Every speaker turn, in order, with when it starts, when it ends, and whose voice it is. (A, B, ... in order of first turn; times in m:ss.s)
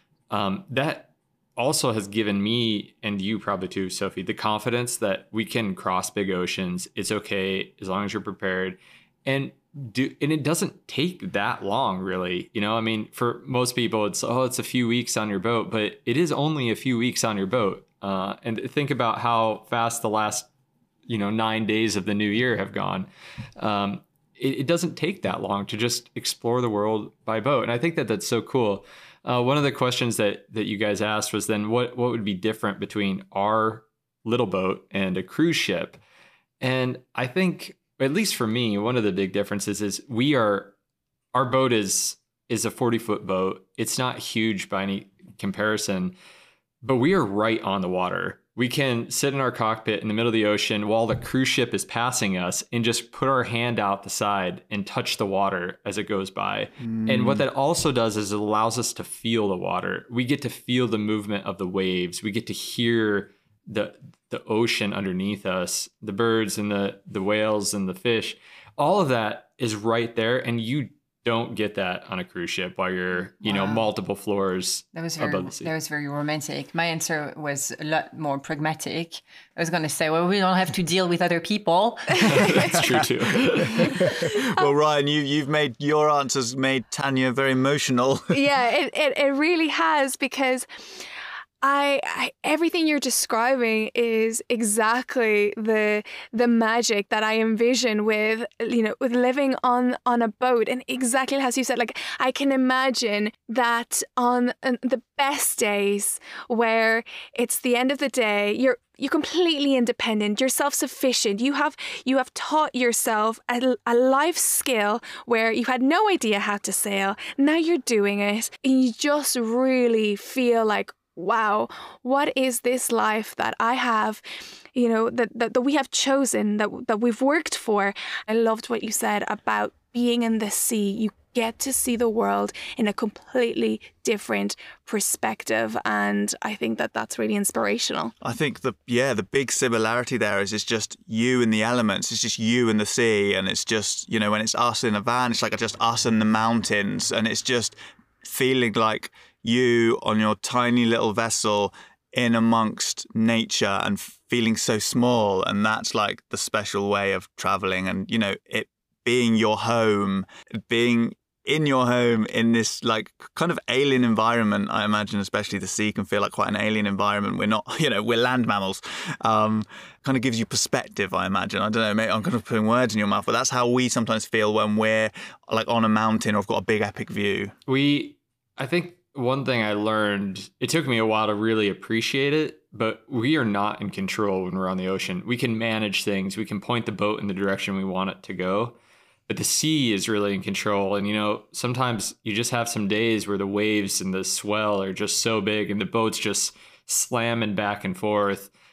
0:00.3-0:20.5 A
0:21.1-0:36.0 A
0:36.6-0:40.7 A
0:41.3-0:46.1 A
0:46.8-1:15.7 A
0:56.8-0:57.4 B
1:13.4-1:13.8 C
1:14.9-1:22.7 C
1:22.2-1:24.0 A
1:23.8-1:28.4 B
1:24.3-1:24.7 D
1:28.3-1:30.7 D
1:31.6-2:04.2 D
2:04.7-2:18.1 D
2:18.2-2:57.5 B
2:57.7-3:08.8 A
3:09.3-3:18.5 A